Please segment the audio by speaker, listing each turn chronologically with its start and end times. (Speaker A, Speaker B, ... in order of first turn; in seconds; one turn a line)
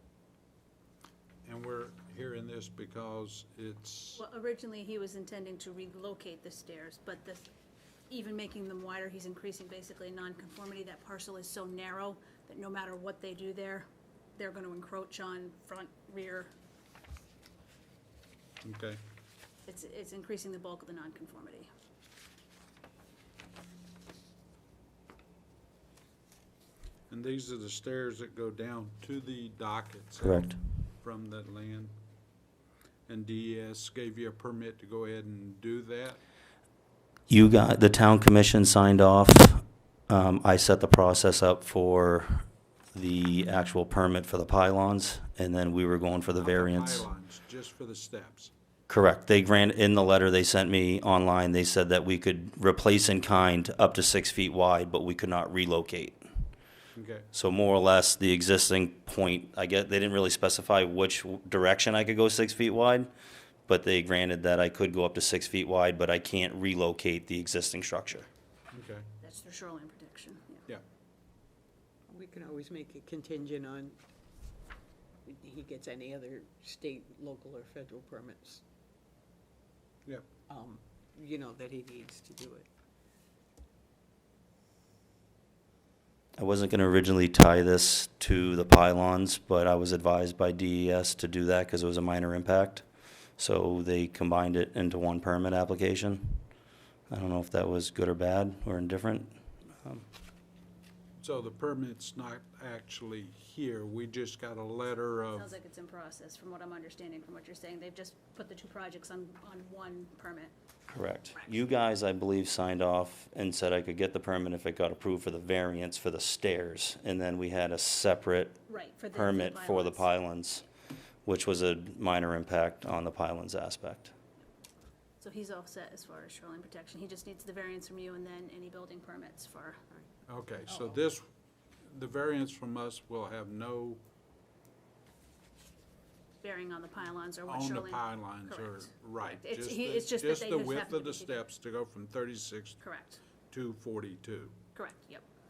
Speaker A: 1.4-4.2
Speaker B: 4.2-7.5
Speaker B: 8.1-16.5
Speaker A: 18.6-19.0
Speaker B: 19.6-21.7
Speaker A: 27.1-31.9
Speaker C: 30.2-30.6
Speaker A: 33.1-36.2
Speaker C: 37.3-47.0
Speaker A: 46.4-48.5
Speaker C: 48.9-56.2
Speaker A: 56.9-57.3
Speaker C: 57.3-63.1
Speaker C: 63.7-68.3
Speaker A: 68.7-69.0
Speaker B: 69.2-70.6
Speaker D: 72.1-74.0
Speaker D: 75.2-78.6
Speaker D: 80.5-82.7
Speaker C: 86.4-92.8
Speaker C: 93.4-96.4
Speaker C: 97.1-100.0
Speaker A: 101.2-105.5
Speaker B: 105.3-110.5
Speaker C: 110.9-120.7
Speaker B: 118.7-120.1
Speaker C: 121.2-124.1
Speaker B: 125.2-129.8
Speaker A: 130.2-131.2
Speaker A: 131.9-134.0
Speaker B: 136.4-141.4
Speaker A: 137.5-142.8
Speaker B: 142.8-143.2
Speaker A: 143.5-144.5
Speaker B: 144.7-145.2